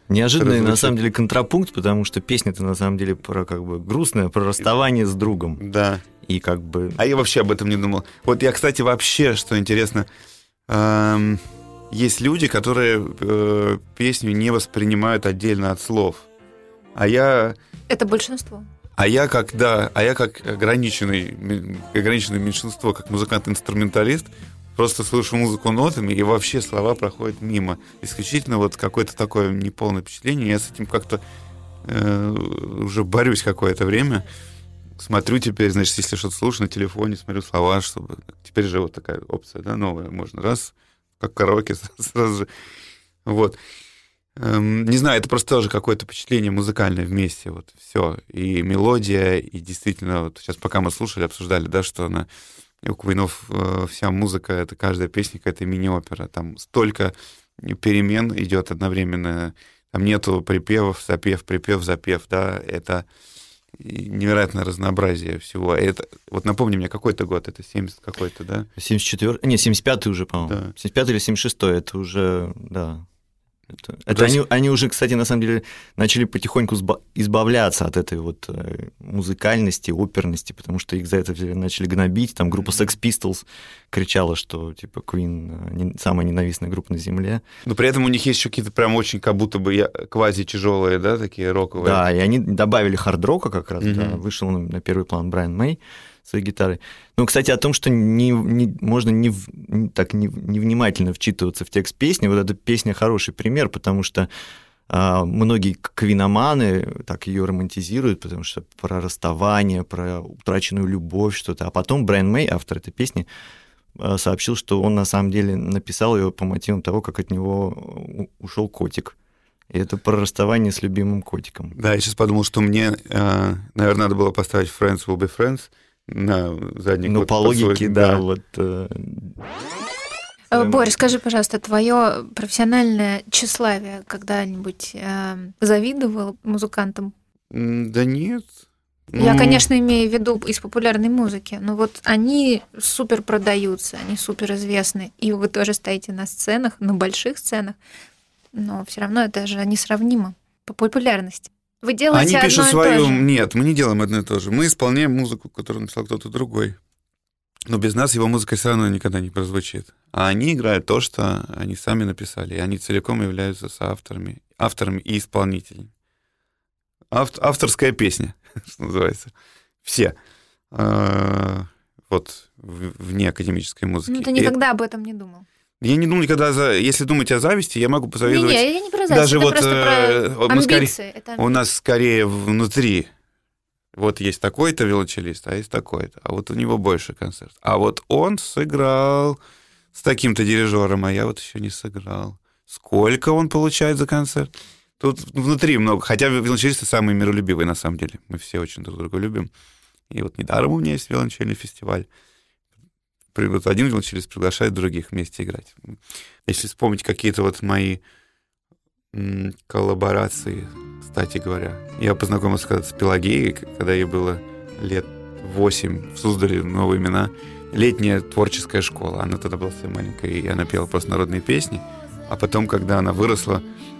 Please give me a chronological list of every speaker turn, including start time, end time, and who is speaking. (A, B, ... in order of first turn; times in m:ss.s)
0:00.1-0:05.6 A
0:00.4-0:01.0 B
0:05.6-0:06.0 B
0:06.2-0:07.0 A
0:07.0-0:10.0 B
0:10.7-0:16.3 B
0:16.9-0:17.6 B
0:17.9-0:18.7 C
0:19.0-0:31.2 B
0:31.8-0:34.2 B
0:35.0-0:42.5 B
0:43.2-0:43.6 B
0:44.4-0:52.3 B
0:52.8-1:03.0 B
1:03.8-1:08.7 B
1:08.8-1:13.0 A
1:10.4-1:10.7 B
1:13.7-1:27.4 A
1:14.1-1:14.4 B
1:27.6-1:32.0 B
1:31.8-1:44.3 A
1:33.8-1:34.2 B
1:44.9-1:53.3 A
1:54.0-1:59.2 A
1:59.7-2:01.8 A
2:01.8-2:08.2 B
2:07.0-2:09.4 A
2:10.5-2:11.0 A
2:10.5-2:17.1 C
2:17.5-2:18.5 B
2:19.1-2:19.6 B
2:19.2-2:27.8 C
2:28.5-2:33.2 C
2:32.1-2:36.8 B
2:37.7-2:45.9 B
2:47.1-2:49.3 B
2:49.8-2:50.1 B
2:50.7-2:54.5 B
2:54.1-2:55.4 C
2:55.8-3:03.1 B
2:58.2-3:01.5 C
3:03.9-3:09.4 B
3:09.9-3:19.5 B
3:20.1-3:22.1 B
3:23.3-3:26.0 B
3:26.5-3:28.0 B
3:29.1-3:43.6 B